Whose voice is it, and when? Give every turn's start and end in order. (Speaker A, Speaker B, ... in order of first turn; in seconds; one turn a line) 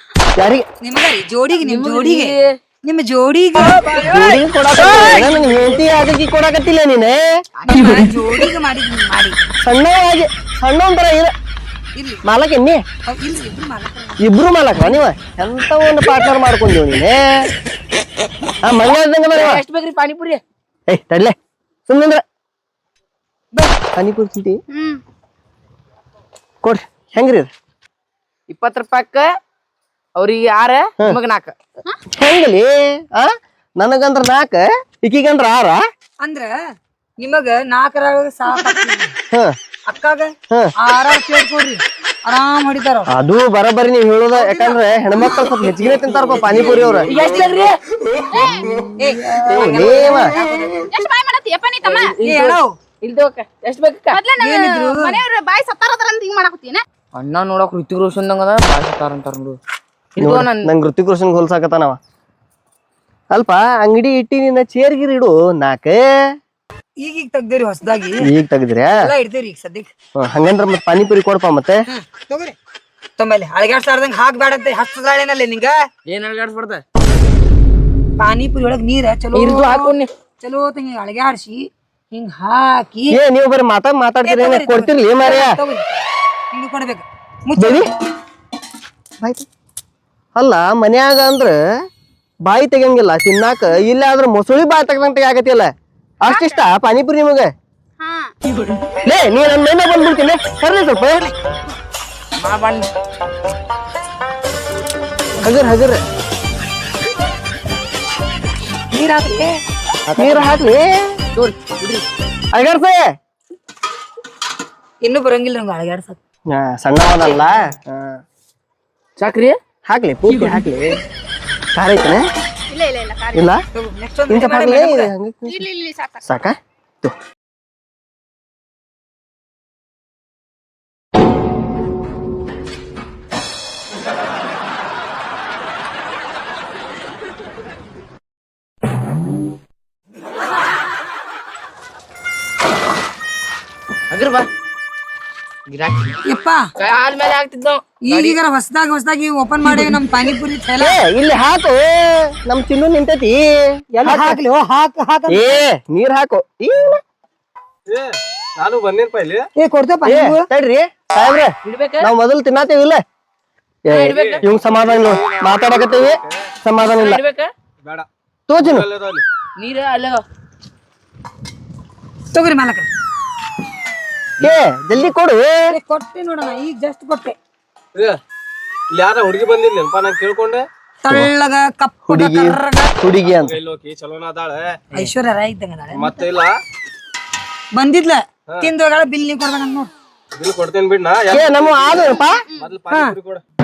Speaker A: 0.4-0.6
Speaker B: 0.8-5.7
Speaker C: 1.5-2.5
Speaker A: 4.0-7.2
Speaker B: 7.7-9.4
Speaker A: 9.6-11.3
Speaker B: 11.9-12.2
Speaker A: 12.2-12.8
Speaker B: 13.1-14.2
Speaker A: 14.2-17.5
Speaker A: 18.6-19.6
Speaker C: 19.3-20.4
Speaker A: 20.9-21.3
Speaker A: 21.9-22.2
Speaker A: 23.9-24.6
Speaker D: 24.7-25.0
Speaker A: 26.6-27.5
Speaker C: 28.5-29.3
Speaker C: 30.1-31.5
Speaker A: 32.2-35.8
Speaker B: 36.2-36.5
Speaker B: 37.2-39.1
Speaker B: 39.9-43.1
Speaker A: 43.1-47.1
Speaker B: 44.3-44.8
Speaker B: 45.4-47.7
Speaker C: 47.0-47.8
Speaker D: 48.3-48.9
Speaker B: 49.0-50.8
Speaker A: 49.4-50.4
Speaker D: 50.9-52.1
Speaker C: 51.8-54.2
Speaker B: 52.2-52.8
Speaker D: 54.1-56.8
Speaker B: 54.4-55.2
Speaker C: 57.1-59.6
Speaker C: 60.1-60.7
Speaker A: 60.2-62.0
Speaker A: 63.3-66.0
Speaker B: 67.0-68.2
Speaker A: 68.2-68.9
Speaker B: 68.9-69.9
Speaker A: 70.2-71.8
Speaker B: 71.9-72.5
Speaker B: 73.2-75.8
Speaker C: 76.1-76.8
Speaker B: 78.2-81.6
Speaker C: 79.3-80.1
Speaker B: 82.1-83.2
Speaker A: 83.1-85.5
Speaker B: 84.2-87.9
Speaker A: 87.6-87.9
Speaker A: 89.2-89.5
Speaker A: 90.3-91.6
Speaker A: 92.4-95.7
Speaker A: 96.2-97.5
Speaker D: 96.2-96.6
Speaker D: 98.0-98.3
Speaker A: 99.0-101.3
Speaker C: 102.4-102.8
Speaker A: 105.4-106.0
Speaker B: 108.9-109.5
Speaker C: 110.1-110.6
Speaker A: 110.2-111.2
Speaker C: 111.3-112.0
Speaker A: 112.5-113.0
Speaker B: 115.0-116.2
Speaker A: 116.5-118.2
Speaker C: 119.2-119.6
Speaker A: 119.8-120.9
Speaker A: 121.7-122.2
Speaker D: 122.7-123.5
Speaker A: 123.3-123.6
Speaker B: 123.7-125.1
Speaker A: 124.3-125.6
Speaker D: 125.5-126.4
Speaker A: 126.2-127.1
Speaker C: 144.1-144.4
Speaker C: 145.7-146.2
Speaker B: 146.2-146.6
Speaker C: 146.8-148.4
Speaker B: 148.1-151.0
Speaker A: 150.8-154.4
Speaker B: 153.9-155.6
Speaker A: 155.3-157.0
Speaker E: 157.9-159.5
Speaker B: 159.6-160.5
Speaker A: 160.0-163.0
Speaker C: 161.6-162.1
Speaker A: 163.9-167.2
Speaker C: 163.9-164.4
Speaker E: 164.1-166.5
Speaker C: 166.8-167.5
Speaker E: 167.8-169.2
Speaker A: 168.5-168.8
Speaker C: 169.6-170.2
Speaker B: 172.3-172.9
Speaker A: 174.4-175.7
Speaker B: 175.7-177.3
Speaker E: 178.9-180.7
Speaker B: 181.0-182.9
Speaker A: 182.1-183.6
Speaker E: 183.2-184.8
Speaker B: 184.9-186.2
Speaker E: 185.9-186.5
Speaker B: 187.7-189.9
Speaker E: 190.3-193.4
Speaker A: 191.3-192.4
Speaker D: 192.4-192.7
Speaker B: 192.9-193.2